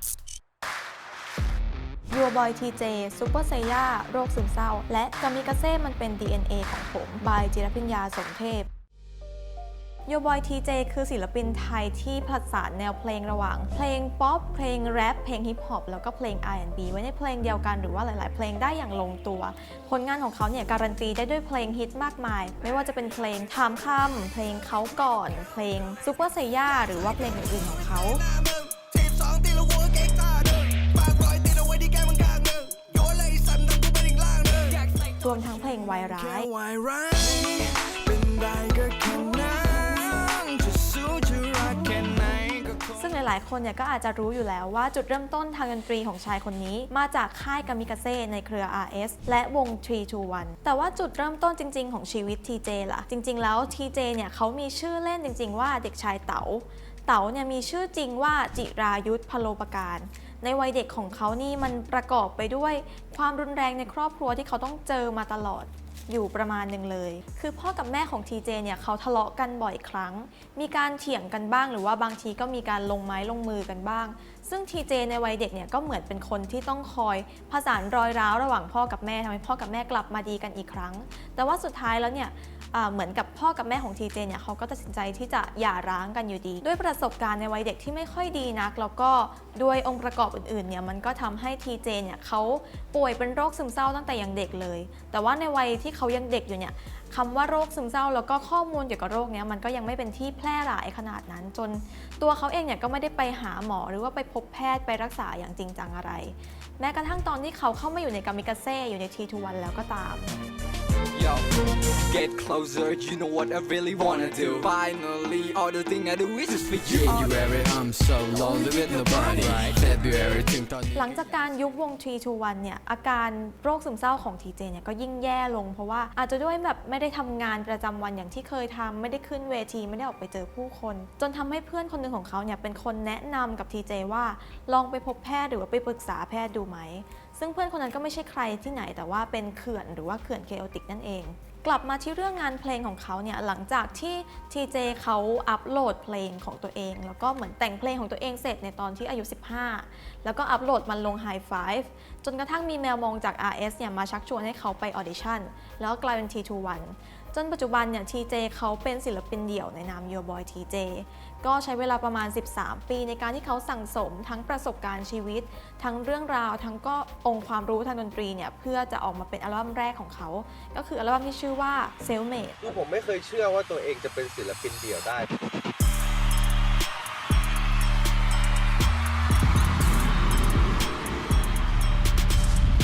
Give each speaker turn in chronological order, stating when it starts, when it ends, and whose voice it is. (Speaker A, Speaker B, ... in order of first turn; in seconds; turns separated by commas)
Speaker A: 2.1-8.7, Speaker A: 10.1-28.2, Speaker B: 27.6-34.8, Speaker A: 35.2-36.5, Speaker B: 36.1-43.1, Speaker A: 43.0-110.4, Speaker C: 111.1-117.5, Speaker D: 116.9-121.1, Speaker C: 118.4-120.1, Speaker B: 118.8-119.4, Speaker A: 120.9-172.8, Speaker E: 172.6-175.3